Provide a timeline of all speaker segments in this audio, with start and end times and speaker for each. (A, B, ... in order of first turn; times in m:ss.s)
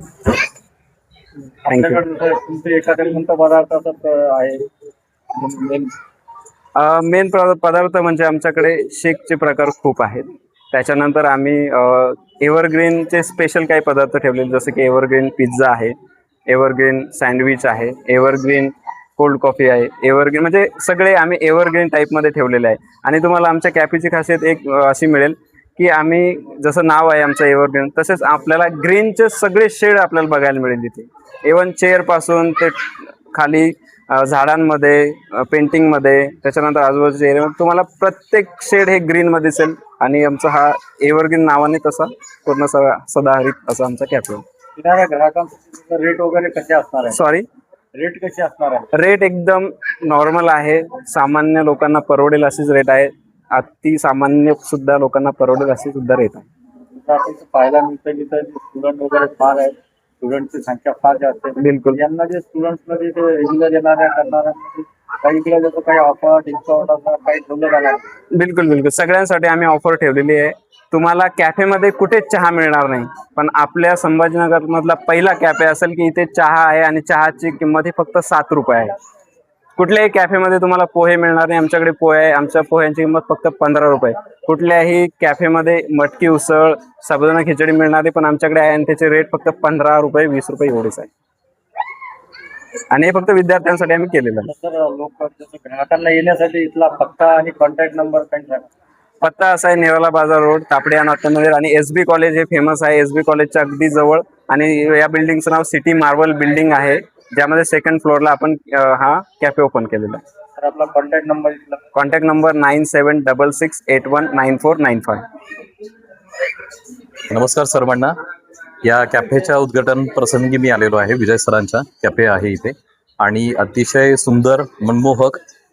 0:01.7-0:02.0 A
0:01.7-0:04.7 B
0:05.4-0:05.9 B
0:06.8-0:15.9 A
0:16.5-0:32.8 A
0:33.3-0:44.4 A
0:44.8-0:47.2 B
0:47.1-0:47.4 A
0:47.9-0:48.8 B
0:48.9-0:56.4 A
0:57.0-1:08.1 B
1:01.6-1:02.0 A
1:08.4-1:18.9 A
1:19.8-1:31.1 A
1:32.9-1:34.5 A
1:34.5-1:38.7 B
1:39.2-1:50.2 A
1:50.6-1:51.8 B
1:52.0-1:55.2 A
1:57.3-1:58.1 C
1:58.8-2:05.4 C